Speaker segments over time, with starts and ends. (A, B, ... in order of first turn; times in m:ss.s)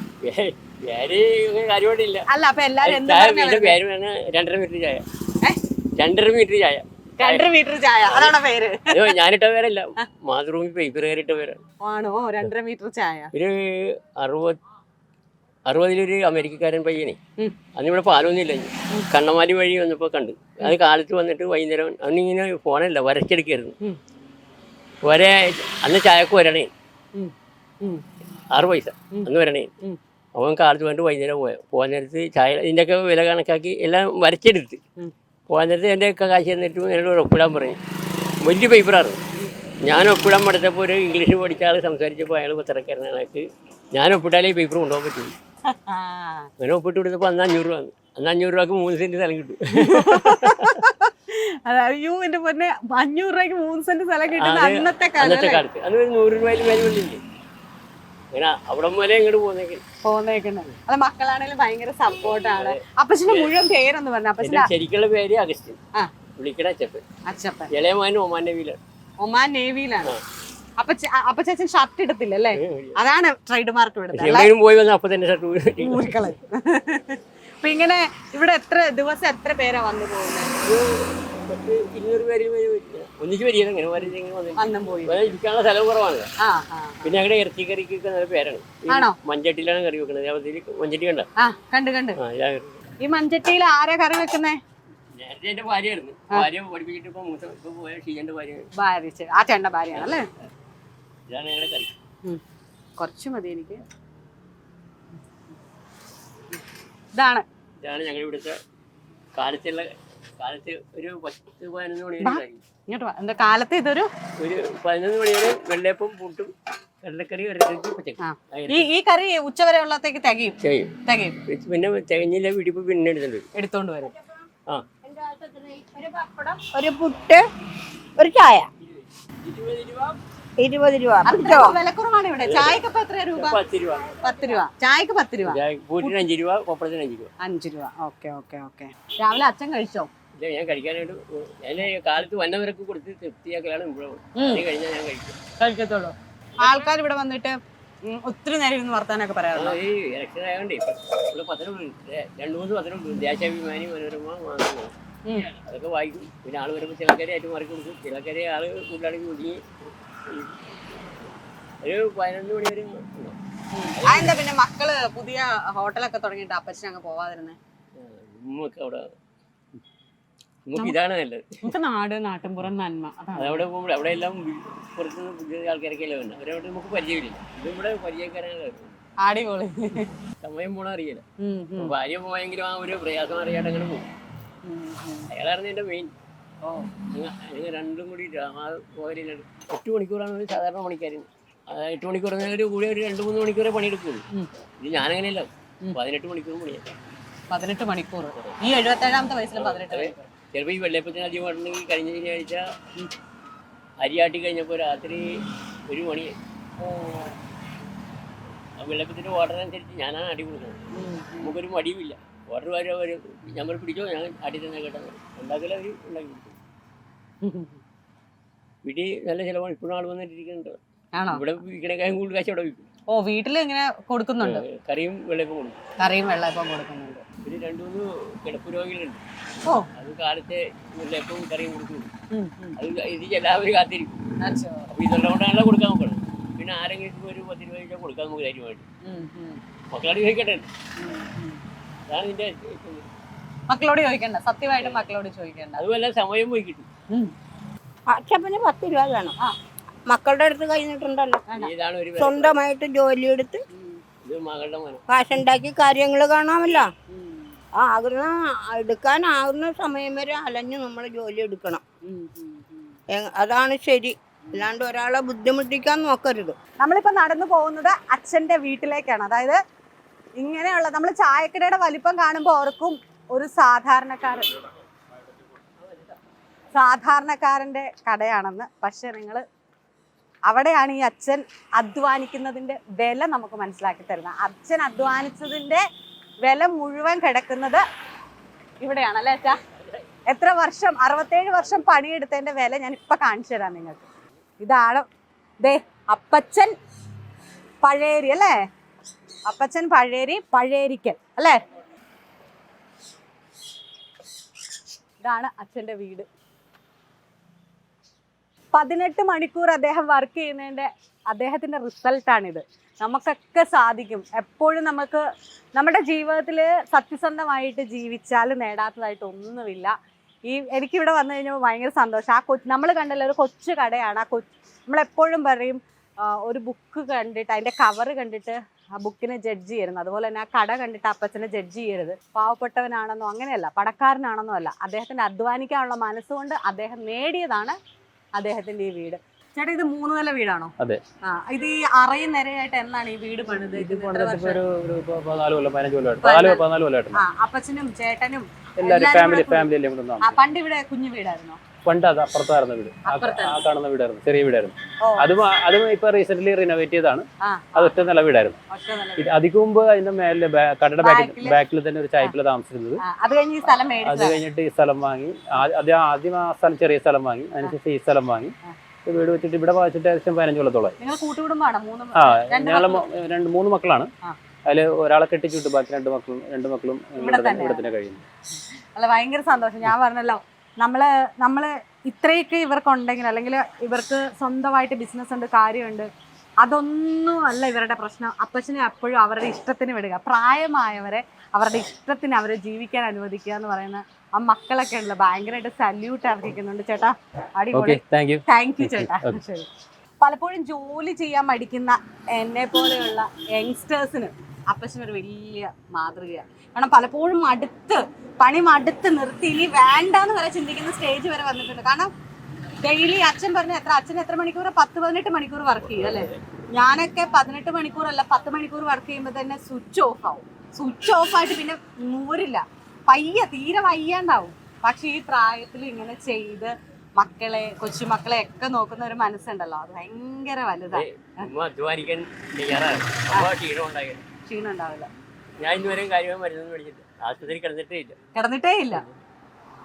0:00.2-0:02.2 A
0:02.3-0:03.8 B
0:02.8-0:05.0 A
0:06.0-0:07.4 A
0:07.2-0:09.1 B
0:08.1-0:08.3 A
0:08.9-0:11.6 A
0:11.8-0:13.3 B
0:13.3-0:14.6 A
0:15.7-0:17.2 A
0:17.7-0:23.7 A
0:25.0-0:26.7 A
0:27.1-0:28.0 B
0:28.5-0:29.7 A
0:30.4-0:34.8 A
0:35.5-0:37.8 A
0:38.4-0:39.2 A
0:39.8-0:45.3 A
0:45.7-0:46.5 B
0:46.6-0:50.8 A
0:49.8-0:55.6 B
0:54.4-0:57.2 A
0:58.3-0:59.8 A
1:00.0-1:04.7 B
1:02.6-1:03.5 A
1:04.4-1:05.8 A
1:06.4-1:07.0 A
1:07.3-1:07.7 B
1:07.7-1:08.8 A
1:09.2-1:10.1 B
1:10.8-1:14.5 B
1:12.6-1:13.0 A
1:14.1-1:16.2 A
1:15.8-1:20.5 B
1:20.6-1:26.3 A
1:24.0-1:25.3 B
1:26.4-1:27.2 B
1:27.0-1:31.3 A
1:28.9-1:29.2 B
1:31.4-1:32.2 B
1:32.2-1:32.8 A
1:33.0-1:34.6 B
1:35.2-1:38.7 A
1:38.8-1:40.3 B
1:39.9-1:40.2 A
1:41.3-1:41.9 A
1:43.0-1:43.8 B
1:47.1-1:47.4 B
1:47.8-1:48.6 A
1:49.3-1:52.6 A
1:52.2-1:54.1 B
1:54.4-1:56.5 A
1:57.0-1:58.9 A
1:58.2-2:01.4 B
2:00.6-2:00.9 A
2:01.5-2:03.4 A
2:03.5-2:04.1 B
2:05.0-2:07.4 C
2:08.2-2:08.7 C
2:09.4-2:10.2 A
2:10.6-2:11.8 C
2:11.2-2:13.6 B
2:12.4-2:12.8 A
2:13.4-2:14.2 A
2:14.2-2:16.2 B
2:15.4-2:17.3 A
2:17.4-2:20.1 B
2:20.4-2:25.4 A
2:24.4-2:24.6 B
2:25.6-2:29.8 B
2:29.5-2:39.6 A
2:35.2-2:35.5 B
2:40.3-2:40.5 A
2:41.8-2:43.4 A
2:43.7-2:47.6 B
2:43.9-2:44.4 A
2:48.0-2:49.0 A
2:50.7-2:51.4 A
2:51.6-2:53.6 B
2:53.4-2:59.0 A
2:59.2-3:00.1 B
3:00.4-3:01.2 A
3:01.4-3:01.9 B
3:01.8-3:04.1 A
3:04.6-3:05.3 B
3:05.3-3:06.1 A
3:06.6-3:06.9 B
3:07.1-3:14.2 A
3:14.8-3:16.9 A
3:17.5-3:20.3 B
3:19.6-3:22.6 A
3:24.0-3:25.2 A
3:25.9-3:26.3 A
3:26.8-3:27.4 B
3:28.8-3:30.8 A
3:30.9-3:31.6 B
3:31.4-3:36.6 A
3:37.4-3:37.8 B
3:38.8-3:40.8 A
3:41.1-3:41.4 B
3:41.3-3:42.9 A
3:43.1-3:44.6 B
3:44.4-3:45.8 A
3:46.0-3:47.2 B
3:47.4-3:49.2 A
3:50.0-3:52.1 A
3:52.3-3:52.8 B
3:52.8-3:54.2 A
3:54.4-3:54.9 B
3:54.9-3:58.8 A
3:59.0-3:59.6 B
3:59.9-4:00.7 A
4:01.0-4:01.6 B
4:02.1-4:03.1 A
4:03.7-4:05.8 B
4:04.8-4:05.0 A
4:05.8-4:06.9 A
4:08.1-4:09.3 C
4:10.1-4:11.4 C
4:11.5-4:12.6 A
4:12.2-4:13.6 C
4:13.7-4:14.0 B
4:14.2-4:15.0 A
4:15.1-4:16.9 C
4:17.1-4:17.6 B
4:17.8-4:21.8 C
4:22.0-4:23.0 B
4:23.1-4:26.5 C
4:26.8-4:29.6 B
4:30.4-4:34.5 B
4:35.8-4:36.1 A
4:36.7-4:39.4 B
4:40.5-4:45.8 B
4:46.4-4:47.8 B
4:48.8-4:49.6 B
4:50.3-4:54.0 B
4:54.6-4:55.0 B
4:55.6-4:56.7 B
4:57.8-4:58.6 B
4:59.5-5:01.6 B
5:05.2-5:06.3 B
5:08.7-5:15.2 B
5:15.7-5:19.9 B
5:20.5-5:37.8 B
5:38.4-5:40.7 B
5:41.2-5:44.6 B
5:43.7-5:47.2 D
5:46.2-5:49.7 B
5:48.8-5:50.4 D
5:50.2-5:51.6 B
5:51.8-5:57.2 D
5:53.0-5:53.6 B
5:55.0-5:55.3 B
5:57.4-5:58.0 B
5:57.8-5:58.6 D
5:58.7-5:59.3 B
5:59.2-6:03.0 D
6:01.0-6:01.6 B
6:03.0-6:04.4 B
6:04.0-6:08.5 D
6:09.0-6:11.0 D
6:11.0-6:13.0 B
6:12.2-6:14.1 D
6:14.6-6:18.2 D
6:17.2-6:17.8 B
6:18.9-6:26.1 B
6:26.6-6:39.7 B
6:37.7-6:39.4 D
6:40.2-6:52.1 B
6:52.8-7:11.5 B
7:10.9-7:14.2 A
7:14.4-7:15.1 B
7:15.6-7:18.2 A
7:18.3-7:19.0 B